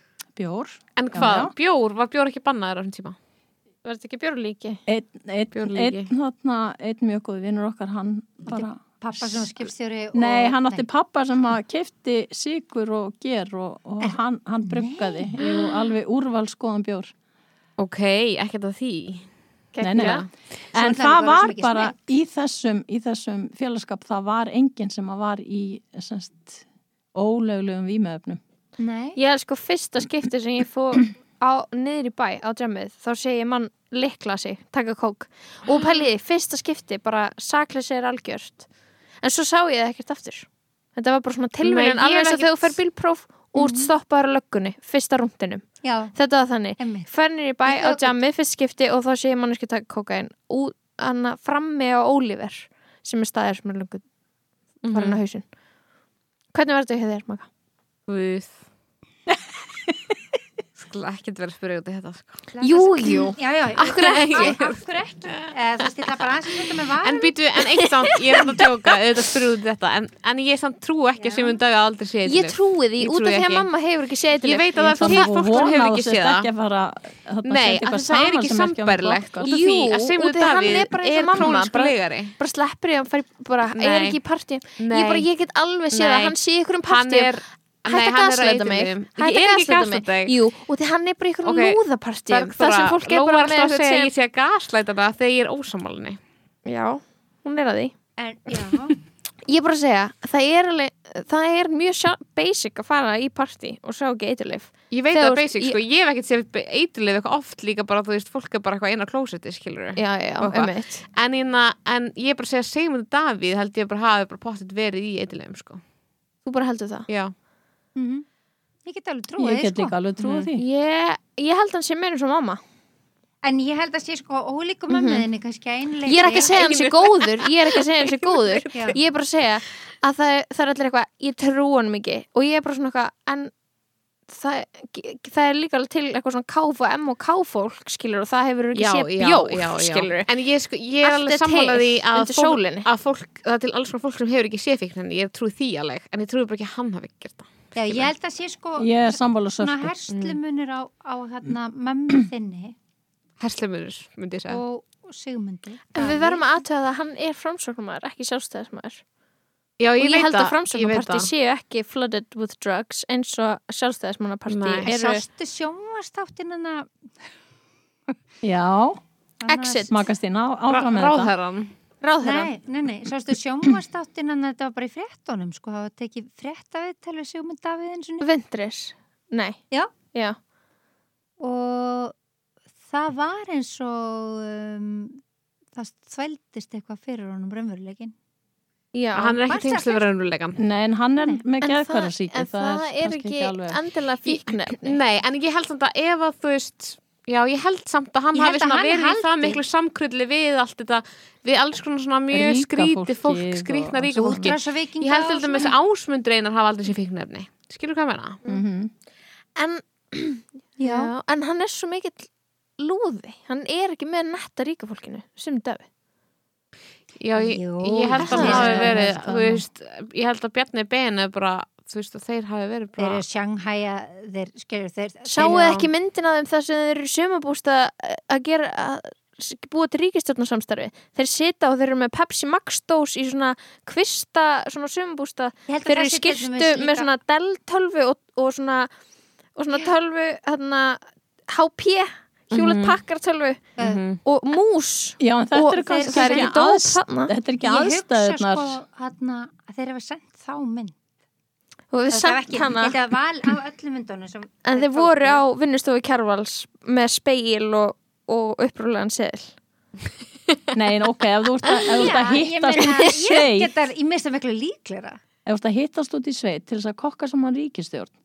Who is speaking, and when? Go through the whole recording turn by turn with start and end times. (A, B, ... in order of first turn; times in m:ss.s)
0:00.4-0:01.5 A
0:01.0-0:03.1 B
0:03.8-0:04.8 C
0:04.9-0:17.1 A
0:05.5-0:06.1 B
0:08.5-0:10.8 D
0:14.0-0:15.5 D
0:17.8-0:19.3 B
0:19.7-0:20.2 C
0:19.8-0:28.4 A
0:19.9-0:20.3 B
0:20.7-0:22.0 D
0:28.8-0:29.2 D
0:29.2-0:38.7 C
0:39.2-0:54.0 C
0:41.6-0:42.8 B
0:43.6-0:43.9 D
0:45.8-0:46.1 D
0:46.8-0:47.1 D
0:47.6-0:48.1 D
0:54.8-0:55.2 B
0:54.8-0:55.4 C
0:56.5-0:57.5 C
0:58.1-0:58.6 B
1:00.8-1:02.4 B
1:02.5-1:07.3 D
1:02.6-1:03.4 C
1:03.8-1:06.1 B
1:06.7-1:13.7 B
1:08.0-1:08.5 C
1:11.2-1:11.6 D
1:12.2-1:15.3 C
1:14.4-1:16.5 B
1:15.0-1:19.5 A
1:17.4-1:22.3 B
1:19.4-1:27.3 C
1:23.7-1:24.2 B
1:24.8-1:25.2 B
1:25.9-1:30.3 B
1:27.9-1:34.1 C
1:31.4-1:36.2 B
1:36.6-1:37.9 C
1:38.2-1:39.0 D
1:39.5-1:45.8 C
1:44.9-1:55.8 B
1:50.0-1:51.0 C
1:56.4-1:57.1 C
1:57.1-1:57.3 B
1:58.0-1:58.2 D
1:58.8-1:59.9 D
1:59.4-2:00.6 A
2:00.2-2:00.5 B
2:00.6-2:02.6 C
2:03.4-2:06.5 D
2:04.9-2:05.3 C
2:06.0-2:13.5 C
2:06.4-2:09.0 B
2:14.3-2:20.3 C
2:18.7-2:28.1 B
2:21.0-2:22.9 C
2:27.7-2:32.7 D
2:28.8-2:29.9 A
2:30.1-2:30.4 B
2:33.4-2:34.6 B
2:34.5-2:36.4 D
2:35.9-2:39.0 C
2:39.8-2:41.3 B
2:40.0-2:45.2 C
2:44.5-2:44.9 B
2:44.8-2:46.9 D
2:48.4-2:49.0 A
2:49.4-2:49.9 D
2:49.5-2:50.0 C
2:49.9-2:51.3 A
2:50.7-2:51.7 B
2:52.0-2:52.5 C
2:52.2-2:58.3 D
2:58.2-2:59.6 C
3:00.1-3:00.4 C
3:01.4-3:02.1 D
3:02.8-3:05.2 D
3:05.8-3:08.1 D
3:08.9-3:09.4 C
3:09.2-3:10.6 B
3:09.4-3:10.1 D
3:10.6-3:13.8 A
3:11.6-3:15.0 C
3:14.8-3:28.4 B
3:18.3-3:19.6 D
3:22.3-3:24.6 A
3:24.1-3:25.7 D
3:28.5-3:28.9 A
3:29.6-3:35.8 C
3:30.8-3:31.1 D
3:37.2-3:43.2 B
3:37.3-3:39.6 D
3:38.2-3:39.0 C
3:43.0-3:45.9 D
3:45.2-3:58.9 C
3:55.7-3:57.1 D
3:59.5-4:03.7 C
4:02.5-4:03.0 B
4:03.8-4:04.0 D
4:03.8-4:04.2 B
4:04.2-4:07.3 C
4:05.2-4:08.8 A
4:05.8-4:06.5 D
4:07.6-4:11.0 D
4:11.9-4:13.0 C
4:12.1-4:15.4 D
4:14.6-4:19.5 C
4:20.7-4:23.7 A
4:21.8-4:22.1 C
4:21.9-4:25.2 D
4:25.4-4:28.1 A